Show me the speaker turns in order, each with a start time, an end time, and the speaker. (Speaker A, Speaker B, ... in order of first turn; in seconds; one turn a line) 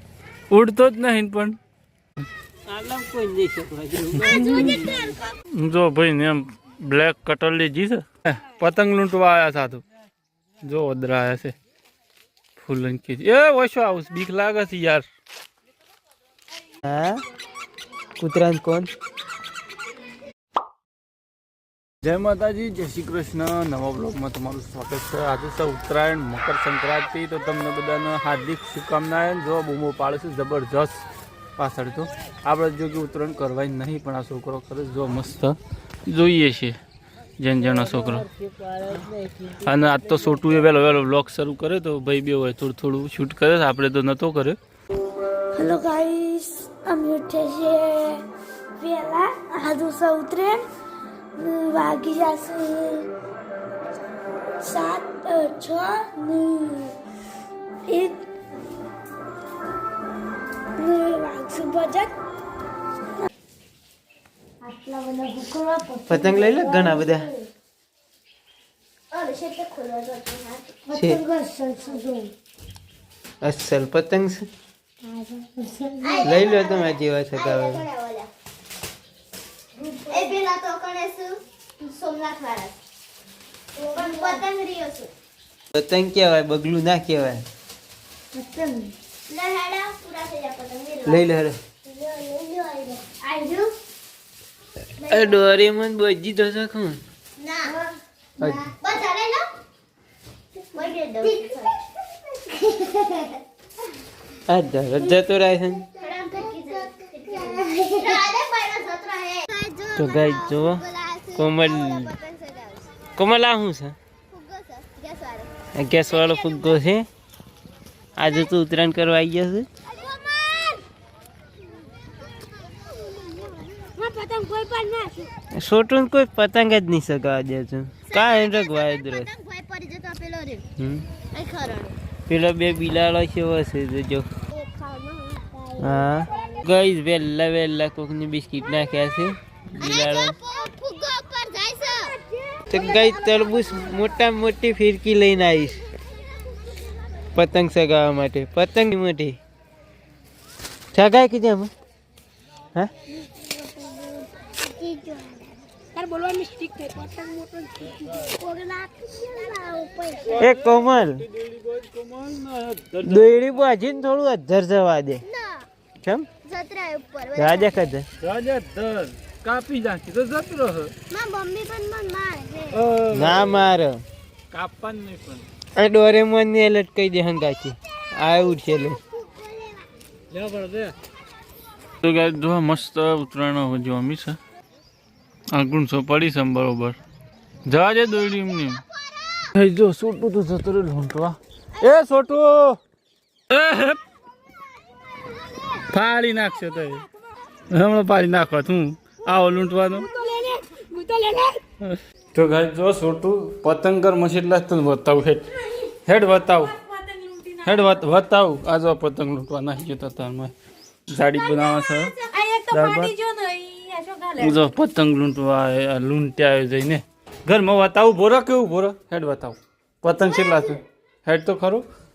Speaker A: 0.5-1.6
Speaker B: 2.7-5.2
Speaker A: 4.2-4.8
Speaker C: 4.3-5.2
Speaker A: 5.5-9.8
Speaker A: 10.6-11.6
Speaker A: 12.6-15.1
Speaker B: 16.8-17.2
Speaker B: 18.2-18.9
Speaker A: 22.0-31.0
Speaker A: 31.6-36.8
Speaker A: 37.4-38.3
Speaker B: 37.6-40.5
Speaker A: 39.6-44.6
Speaker C: 45.5-48.2
Speaker C: 48.8-50.7
Speaker C: 51.4-53.1
Speaker C: 54.6-57.0
Speaker C: 57.9-58.2
Speaker C: 60.8-62.1
Speaker C: 64.7-67.2
Speaker B: 66.1-67.3
Speaker D: 69.1-70.9
Speaker C: 70.9-72.3
Speaker B: 70.9-71.2
Speaker B: 73.4-74.5
Speaker C: 76.0-76.3
Speaker D: 76.0-78.3
Speaker B: 76.2-77.9
Speaker D: 80.1-82.8
Speaker D: 83.8-85.1
Speaker C: 83.9-84.5
Speaker B: 85.8-87.5
Speaker D: 89.3-91.3
Speaker B: 91.0-91.5
Speaker C: 91.9-93.1
Speaker D: 93.2-93.7
Speaker D: 95.0-95.4
Speaker B: 95.1-97.0
Speaker D: 97.4-97.8
Speaker B: 98.4-98.7
Speaker D: 98.8-99.5
Speaker D: 100.7-101.8
Speaker D: 102.6-103.3
Speaker B: 104.5-105.9
Speaker D: 106.0-112.9
Speaker C: 107.3-108.2
Speaker B: 110.0-110.8
Speaker B: 111.3-112.1
Speaker B: 113.2-114.0
Speaker D: 114.3-115.5
Speaker B: 115.8-117.1
Speaker B: 118.2-119.7
Speaker C: 120.0-120.8
Speaker D: 123.1-123.5
Speaker C: 123.3-125.3
Speaker B: 125.5-129.3
Speaker D: 128.1-130.7
Speaker B: 130.8-131.1
Speaker D: 131.3-132.0
Speaker B: 132.3-134.3
Speaker C: 134.6-136.6
Speaker B: 135.8-140.4
Speaker D: 139.8-142.1
Speaker C: 141.9-144.1
Speaker B: 142.7-145.8
Speaker B: 147.3-149.4
Speaker B: 150.9-151.7
Speaker C: 153.3-160.4
Speaker A: 160.2-163.6
Speaker B: 160.4-161.2
Speaker B: 163.0-165.2
Speaker D: 165.2-165.7
Speaker B: 166.0-166.3
Speaker D: 166.4-167.8
Speaker B: 167.3-168.1
Speaker A: 168.2-170.9
Speaker D: 171.1-172.8
Speaker A: 172.7-173.7
Speaker B: 173.1-174.0
Speaker A: 174.5-175.4
Speaker B: 175.8-179.0
Speaker D: 179.3-179.8
Speaker A: 180.3-180.9
Speaker A: 182.0-184.4
Speaker A: 185.5-187.0
Speaker A: 187.7-188.8
Speaker A: 189.5-192.8
Speaker A: 193.5-194.0
Speaker A: 195.9-197.1
Speaker A: 197.7-200.1
Speaker C: 199.9-201.6
Speaker A: 201.8-206.8
Speaker C: 206.9-207.7
Speaker A: 207.6-210.5
Speaker A: 211.1-212.2
Speaker C: 211.8-214.6
Speaker A: 212.7-213.2
Speaker A: 214.4-221.9
Speaker C: 220.4-220.8